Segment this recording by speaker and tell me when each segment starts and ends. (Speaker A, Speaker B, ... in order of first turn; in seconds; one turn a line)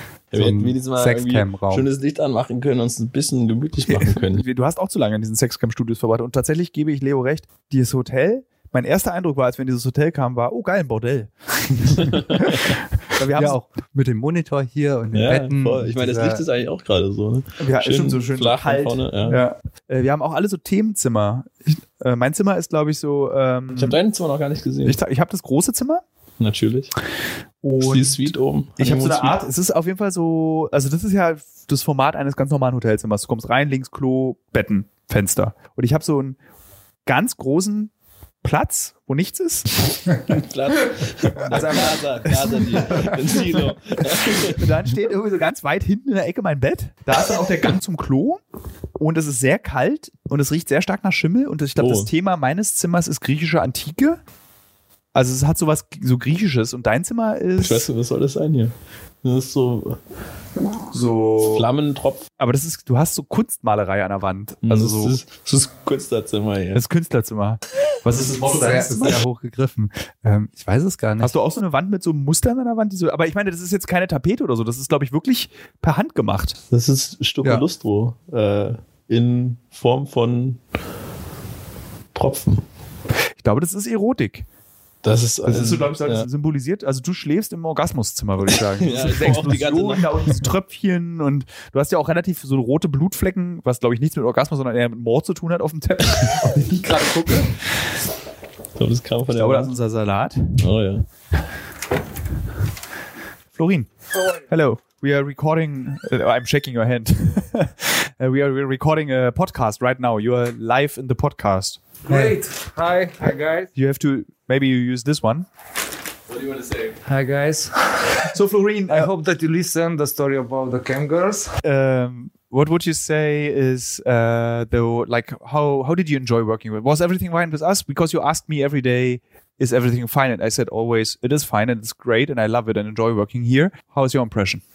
Speaker A: 0.3-4.4
Speaker B: 0.3-1.9
Speaker C: 3.9-12.6
Speaker C: 13.1-13.6
Speaker B: 13.3-16.4
Speaker A: 15.1-19.4
Speaker C: 17.6-24.0
Speaker A: 23.8-25.0
Speaker C: 24.8-26.0
Speaker A: 26.4-26.9
Speaker C: 27.6-36.4
Speaker A: 27.8-29.4
Speaker C: 37.0-37.9
Speaker C: 38.4-40.0
Speaker A: 40.3-44.6
Speaker C: 41.5-43.3
Speaker C: 44.2-48.4
Speaker C: 49.0-54.2
Speaker A: 51.8-52.1
Speaker C: 55.1-57.9
Speaker A: 57.6-60.0
Speaker C: 60.9-61.6
Speaker A: 61.4-62.2
Speaker C: 62.4-65.2
Speaker A: 64.6-66.8
Speaker C: 66.7-69.2
Speaker B: 68.5-71.3
Speaker C: 71.2-76.6
Speaker A: 76.7-80.6
Speaker A: 82.1-82.6
Speaker C: 83.4-84.5
Speaker A: 85.0-86.2
Speaker C: 85.4-97.6
Speaker A: 88.8-90.5
Speaker A: 98.8-99.7
Speaker C: 99.3-100.6
Speaker A: 100.6-101.0
Speaker C: 103.5-111.8
Speaker D: 112.0-113.7
Speaker B: 112.1-112.3
Speaker C: 113.7-115.5
Speaker A: 116.5-116.9
Speaker D: 117.0-118.3
Speaker C: 118.3-119.1
Speaker D: 118.9-121.6
Speaker C: 121.6-134.6